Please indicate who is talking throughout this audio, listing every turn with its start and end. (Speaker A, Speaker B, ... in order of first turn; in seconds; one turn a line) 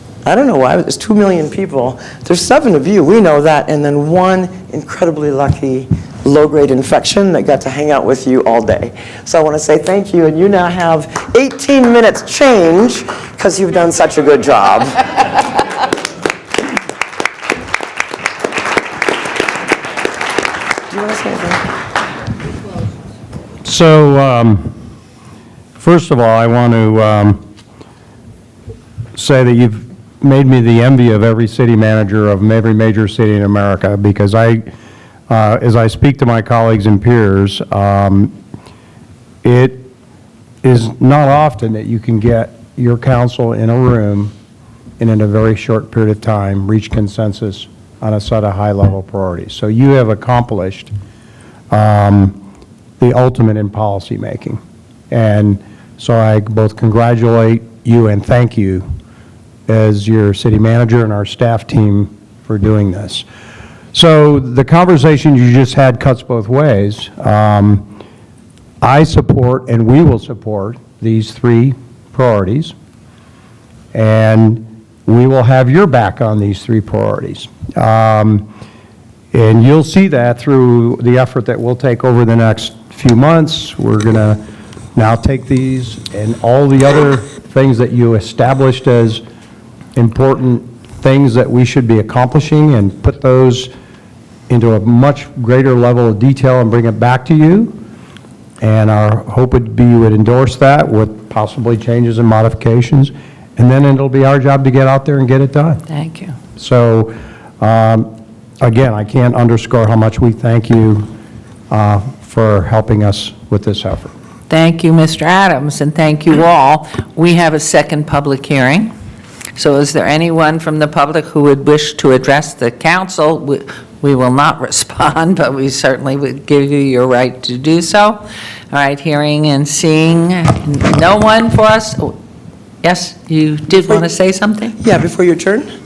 Speaker A: 0.2-15.5
Speaker A: 20.9-21.6
Speaker B: 23.6-24.7
Speaker B: 25.8-27.4
Speaker B: 29.1-34.6
Speaker B: 35.3-38.3
Speaker B: 39.4-39.9
Speaker B: 40.6-44.3
Speaker B: 45.0-50.9
Speaker B: 51.7-52.4
Speaker B: 53.0-58.8
Speaker B: 59.7-63.2
Speaker B: 63.9-67.8
Speaker B: 68.8-72.7
Speaker B: 73.9-78.5
Speaker B: 79.3-84.4
Speaker B: 84.9-89.2
Speaker B: 90.0-93.7
Speaker B: 94.5-97.7
Speaker B: 98.6-105.8
Speaker C: 105.9-106.3
Speaker B: 106.6-108.1
Speaker B: 108.6-111.1
Speaker B: 111.7-114.1
Speaker C: 114.5-118.9
Speaker C: 119.5-132.1
Speaker C: 132.8-134.8
Speaker A: 133.7-134.1
Speaker A: 134.8-135.7